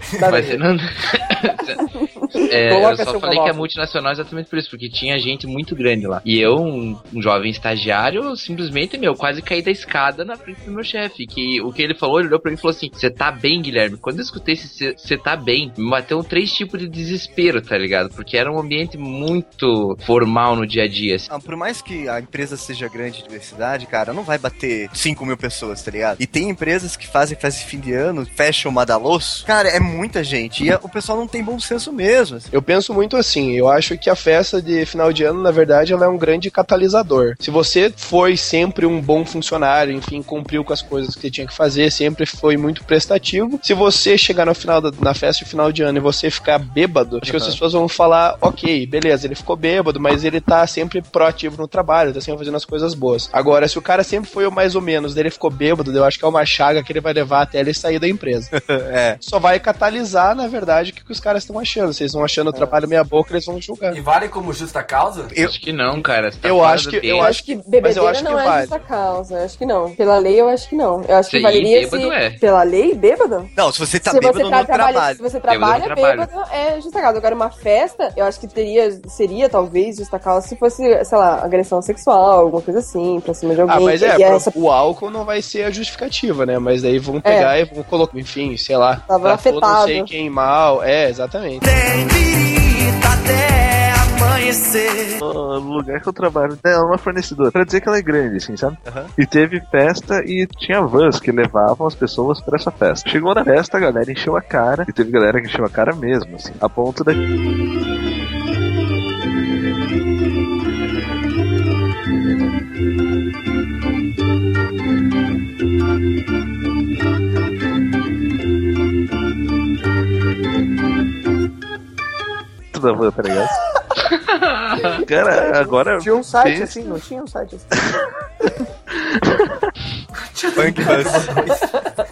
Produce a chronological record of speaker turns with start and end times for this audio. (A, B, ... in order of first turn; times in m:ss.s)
0:00.2-0:00.6 A
0:00.3-0:01.8 B
0:02.0-0:02.3 C
0:02.4-0:03.7 A
0:02.5-0:21.3 B
0:21.3-0:32.5 D
0:32.5-0:58.5 E
0:58.5-0:59.2 D
0:59.2-1:04.0 E
1:03.9-1:05.3 F
1:05.4-1:07.4 B
1:06.4-1:08.8 E
1:07.2-1:13.5 C
1:11.3-1:12.4 B
1:13.6-1:15.2 D
1:14.1-1:24.5 C
1:15.5-1:16.3 B
1:23.6-1:31.6 E
1:27.2-1:27.5 C
1:29.1-1:30.1 C
1:31.7-1:35.2 D
1:35.2-1:47.2 G
1:38.8-1:39.1 D
2:02.7-2:03.5 G
2:04.1-2:04.9 B
2:04.8-2:06.9 G
2:05.3-2:08.0 A
2:09.2-2:09.5 G
2:10.2-2:11.9 F
2:10.6-2:11.3 D